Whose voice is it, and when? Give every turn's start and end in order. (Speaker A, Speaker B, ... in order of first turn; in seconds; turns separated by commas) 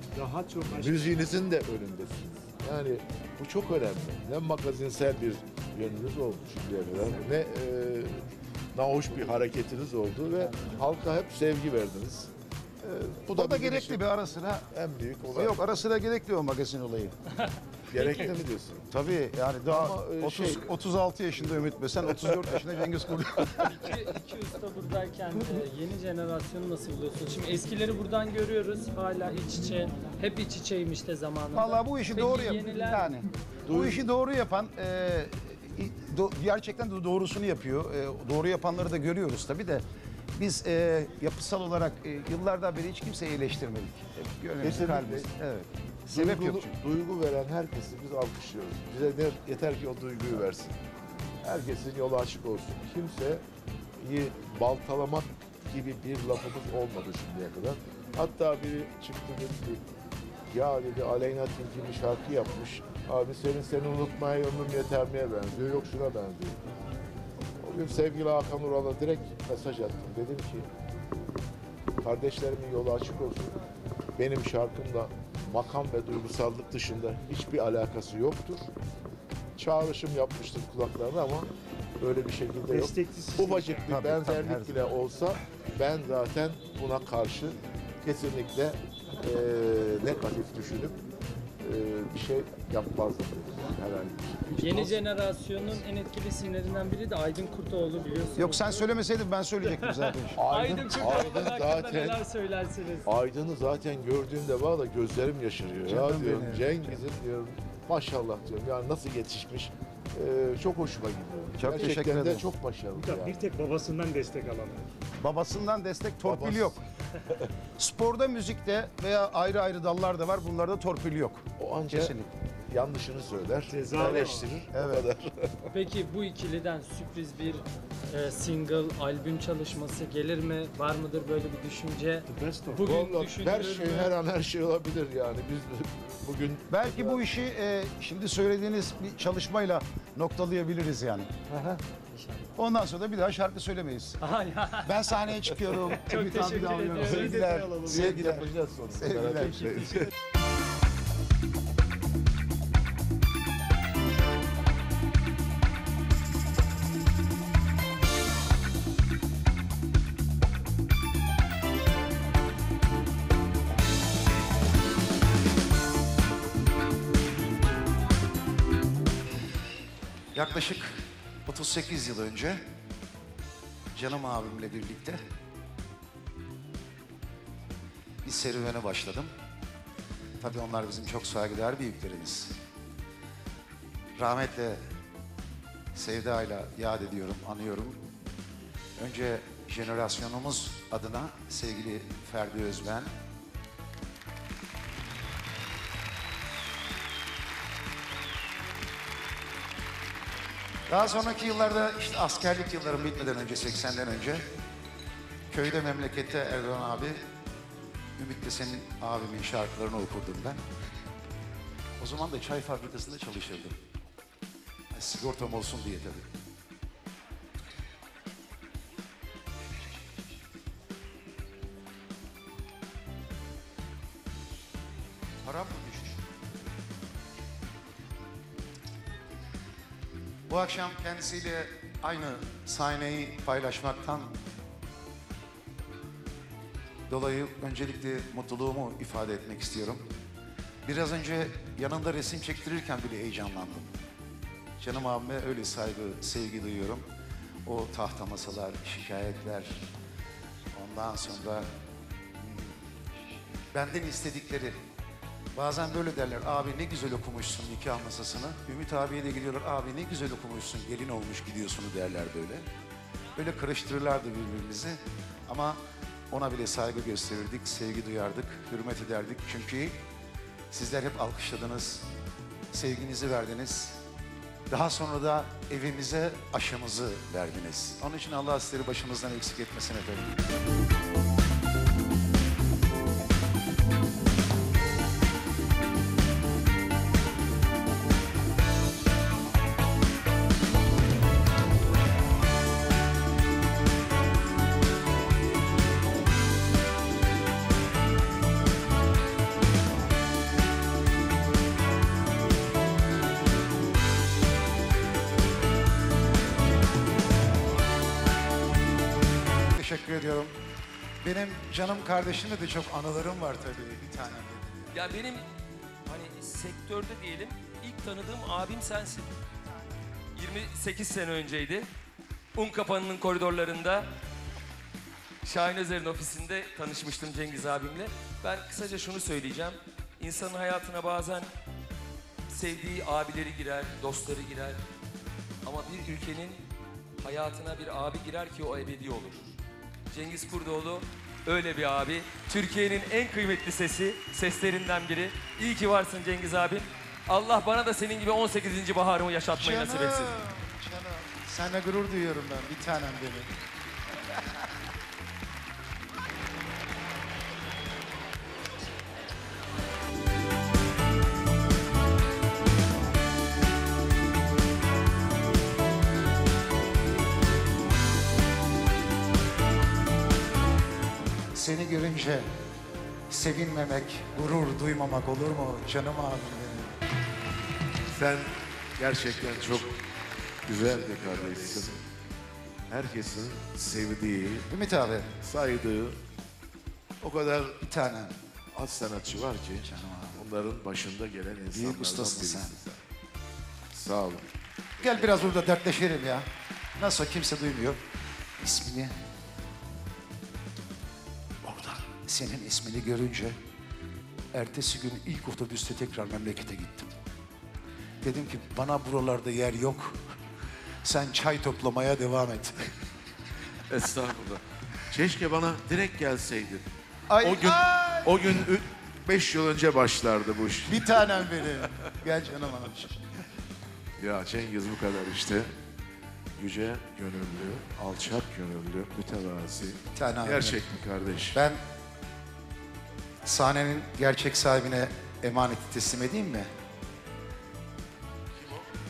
Speaker A: 0.1-1.1, Speaker B: 0.7-12.3, Speaker B: 12.8-14.0, Speaker C: 13.4-14.7, Speaker B: 14.7-15.6, Speaker C: 15.3-17.1, Speaker D: 17.4-18.3, Speaker B: 17.9-18.9, Speaker C: 18.9-23.9, Speaker B: 19.7-20.7, Speaker D: 23.7-33.1, Speaker C: 31.5-39.8, Speaker B: 33.7-34.0, Speaker C: 40.4-46.7, Speaker B: 44.6-45.3, Speaker B: 46.1-50.8, Speaker B: 51.4-53.4, Speaker B: 54.0-59.8, Speaker B: 60.5-66.6, Speaker B: 67.6-70.7, Speaker B: 72.0-73.5, Speaker B: 74.2-78.6, Speaker B: 79.6-91.0, Speaker A: 82.7-84.0, Speaker C: 83.9-84.8, Speaker B: 91.6-95.0, Speaker D: 94.6-98.9, Speaker C: 98.4-100.4, Speaker D: 99.7-103.1, Speaker B: 100.4-102.2, Speaker B: 103.1-113.4, Speaker C: 105.9-107.0, Speaker C: 111.6-112.5, Speaker A: 112.9-114.8, Speaker C: 115.2-116.8, Speaker B: 116.2-117.5, Speaker C: 117.8-122.3, Speaker B: 121.6-122.2, Speaker B: 122.7-125.6, Speaker A: 123.7-124.6, Speaker C: 124.7-125.1, Speaker D: 125.7-134.1, Speaker A: 132.3-132.9, Speaker B: 132.8-137.2, Speaker C: 136.7-141.3, Speaker B: 141.5-141.8, Speaker D: 142.1-142.5, Speaker C: 142.6-144.2, Speaker D: 144.2-145.0, Speaker C: 144.8-149.7, Speaker D: 145.8-147.9, Speaker B: 147.0-150.1, Speaker A: 147.5-147.7, Speaker C: 170.3-172.6, Speaker C: 173.9-175.2, Speaker C: 178.2-179.3, Speaker C: 180.4-182.6, Speaker C: 184.2-184.8, Speaker C: 185.9-188.0, Speaker C: 189.0-193.1, Speaker C: 200.9-204.5, Speaker C: 205.5-207.2, Speaker C: 208.2-210.6, Speaker C: 212.0-213.8, Speaker C: 214.9-216.3, Speaker C: 225.4-226.2, Speaker C: 230.5-234.3, Speaker C: 237.1-240.0, Speaker C: 240.8-243.9, Speaker C: 244.8-247.1, Speaker C: 247.7-249.9, Speaker C: 250.7-251.7, Speaker C: 252.4-252.8, Speaker C: 253.7-254.8, Speaker C: 255.6-262.7, Speaker C: 263.4-265.8, Speaker C: 266.3-270.0, Speaker C: 270.7-272.1, Speaker C: 272.7-274.0, Speaker C: 274.7-280.4, Speaker C: 309.8-310.5, Speaker C: 311.2-314.9, Speaker E: 314.9-315.4, Speaker E: 316.1-319.3, Speaker E: 320.4-321.9, Speaker E: 322.6-324.1, Speaker E: 325.4-331.5, Speaker E: 332.5-334.8, Speaker E: 335.6-336.6, Speaker E: 337.2-339.5, Speaker E: 340.1-350.4, Speaker C: 349.5-353.6, Speaker C: 371.5-372.5, Speaker C: 373.3-377.0, Speaker B: 378.1-380.0, Speaker B: 380.7-382.0, Speaker B: 382.9-384.7, Speaker C: 384.7-385.3, Speaker B: 385.4-386.2, Speaker B: 387.2-387.8, Speaker C: 387.8-388.4, Speaker B: 388.7-393.0, Speaker C: 389.8-390.4, Speaker C: 391.7-392.8, Speaker B: 393.9-394.5, Speaker C: 395.0-398.0, Speaker B: 395.0-395.6, Speaker C: 398.6-399.1, Speaker C: 401.6-403.6, Speaker C: 404.5-407.1, Speaker C: 408.2-410.2, Speaker C: 411.0-412.9, Speaker B: 413.9-416.9, Speaker C: 417.3-418.6, Speaker B: 417.4-422.1, Speaker C: 420.9-423.2, Speaker B: 424.2-425.7, Speaker B: 426.6-431.6, Speaker C: 430.1-430.9, Speaker C: 431.5-431.8, Speaker C: 433.4-436.7, Speaker B: 438.6-438.8